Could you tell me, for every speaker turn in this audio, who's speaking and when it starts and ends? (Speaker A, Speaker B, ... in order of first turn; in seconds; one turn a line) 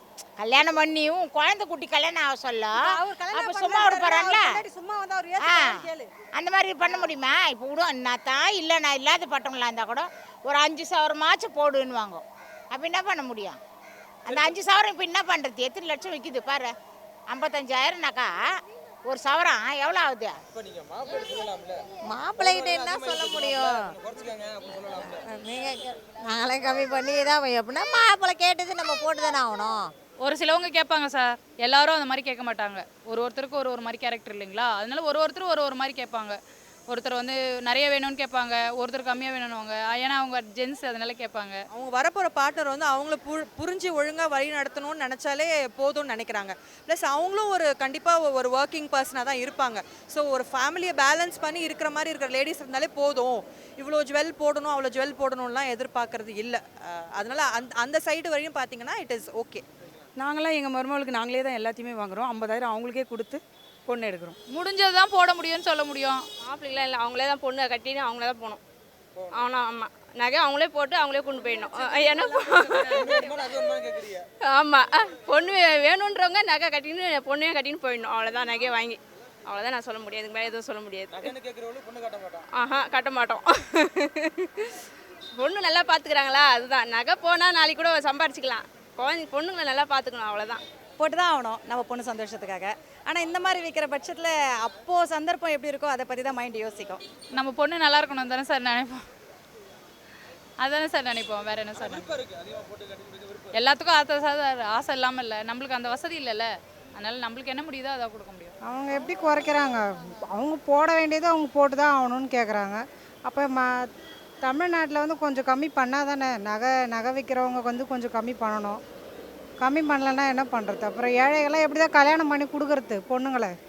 Speaker A: 0.4-4.6
Speaker B: 3.3-5.8
Speaker A: 5.4-13.6
Speaker A: 14.3-16.7
Speaker A: 17.3-18.3
Speaker A: 19.1-20.4
Speaker C: 20.6-21.7
Speaker D: 22.1-23.8
Speaker C: 22.7-25.1
Speaker D: 25.2-29.9
Speaker E: 30.2-36.4
Speaker E: 36.9-41.6
Speaker F: 41.7-59.6
Speaker G: 60.2-64.4
Speaker E: 64.5-66.3
Speaker H: 66.4-68.6
Speaker H: 69.3-73.3
Speaker C: 73.3-74.2
Speaker H: 74.5-81.3
Speaker C: 81.4-82.4
Speaker H: 82.5-84.7
Speaker H: 85.3-90.6
Speaker B: 91.0-97.0
Speaker E: 97.3-99.0
Speaker E: 100.6-102.2
Speaker E: 103.5-108.5
Speaker I: 108.6-113.7
Speaker I: 114.4-118.8
Speaker I: 119.6-123.5